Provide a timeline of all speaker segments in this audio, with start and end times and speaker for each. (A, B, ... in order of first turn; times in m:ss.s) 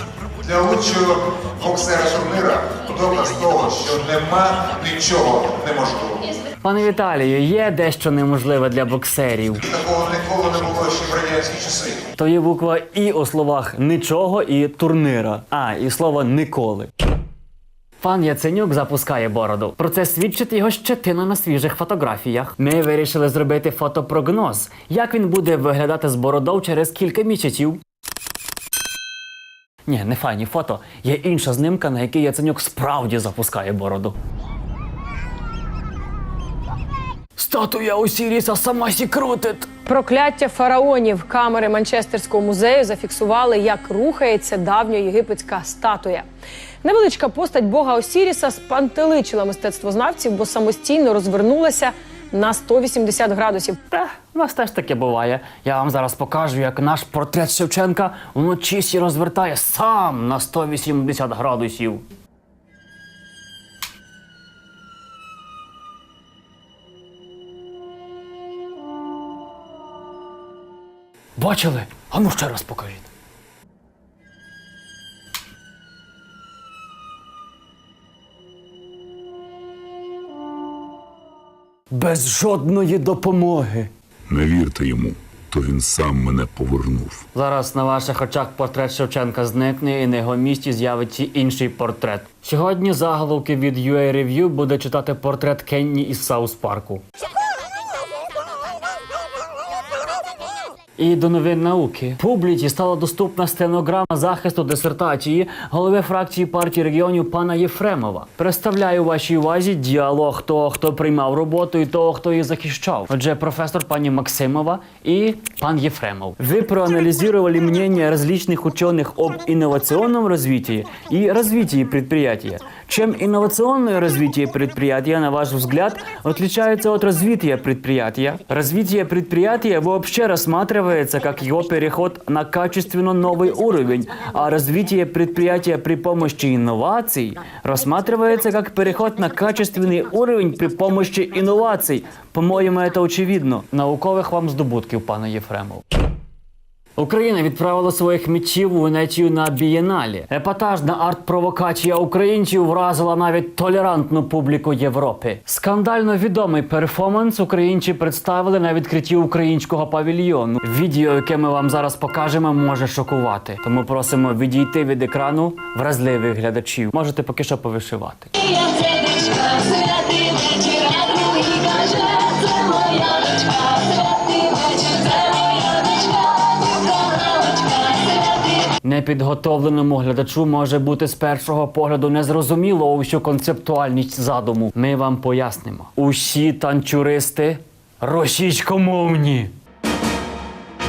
0:00.4-0:06.2 A
0:06.6-0:09.7 B
0:09.7-0:12.0 A
0:12.1-0:16.9 B
0:18.0-0:27.8 B
0:29.9-0:34.2 B
0:37.4-0:39.8 B
0:39.9-0:46.2 C
0:46.8-0:53.8 C
0:53.9-1:02.0 B
1:11.4-1:13.1 B
1:21.9-1:23.9 B
1:24.3-1:27.2 D
1:27.3-1:37.0 B
1:41.0-2:25.8 B
2:27.0-2:48.8 B
2:54.6-2:55.2 C
2:56.0-2:56.4 C
2:58.5-3:09.5 B